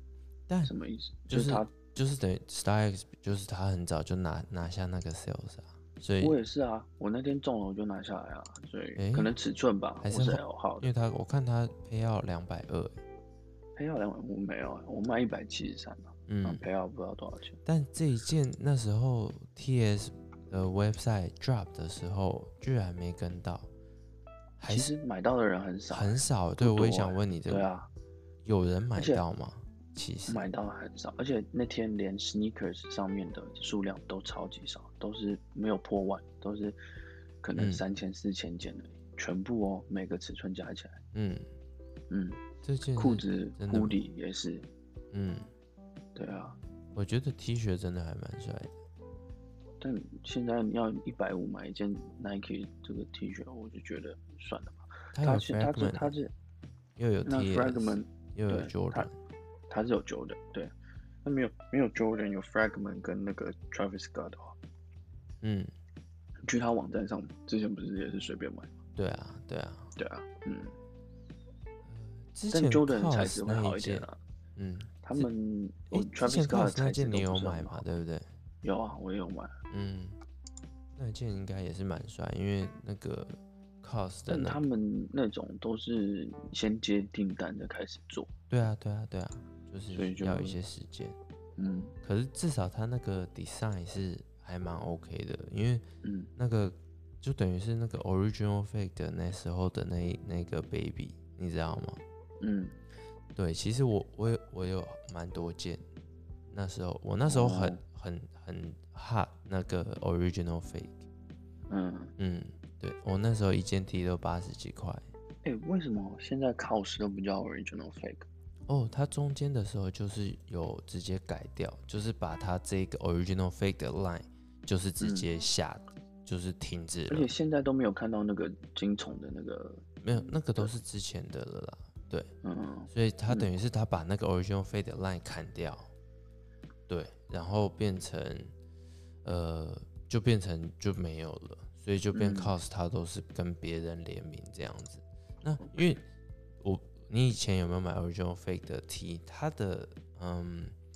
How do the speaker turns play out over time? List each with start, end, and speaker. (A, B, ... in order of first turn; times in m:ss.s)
0:00.5-0:00.7 A
0:00.6-0:01.7 B
0:01.3-0:06.4 A
0:06.2-0:10.9 B
0:09.0-0:09.3 A
0:10.0-0:13.0 A
0:13.8-0:17.6 B
0:16.3-0:16.6 A
0:17.6-0:23.7 A
0:24.6-0:24.9 A
0:24.7-0:27.9 B
0:25.9-0:27.7 A
0:28.4-0:30.5 A
0:29.0-0:29.2 B
0:30.3-0:36.8 B
0:37.4-0:41.0 B
0:37.6-0:37.8 A
0:41.1-0:41.5 A
0:42.1-0:42.4 B
0:42.6-0:44.0 A
0:43.0-0:44.7 B
0:45.1-0:45.5 A
0:46.2-0:46.6 B
0:46.9-0:48.8 A
0:49.8-0:56.3 B
0:55.1-0:56.1 A
0:57.0-0:59.1 A
0:57.3-0:59.1 B
0:59.7-1:00.7 B
1:01.2-1:04.6 B
1:05.4-1:05.7 A
1:06.5-1:08.8 B
1:09.0-1:10.0 A
1:10.0-1:10.8 B
1:11.8-1:15.3 A
1:12.5-1:14.2 B
1:15.0-1:17.8 B
1:15.9-1:18.3 A
1:18.6-1:19.5 B
1:19.7-1:20.2 A
1:21.0-1:24.6 A
1:24.3-1:28.3 B
1:28.5-1:31.2 A
1:29.9-1:30.6 B
1:31.6-1:32.0 B
1:32.0-1:35.8 A
1:36.0-1:36.3 B
1:36.4-1:42.0 A
1:42.4-1:42.8 B
1:43.4-1:45.8 A
1:46.5-1:51.0 A
1:47.3-1:47.8 B
1:51.7-1:52.1 B
1:52.2-1:55.0 A
1:55.4-1:58.3 B
1:58.7-2:07.3 A
2:05.0-2:05.3 B
2:07.1-2:10.7 B
2:10.0-2:12.3 A
2:12.4-2:13.5 B
2:12.9-2:15.9 A
2:16.9-2:18.5 A
2:19.2-2:26.0 A
2:22.1-2:22.5 B
2:26.6-2:30.8 A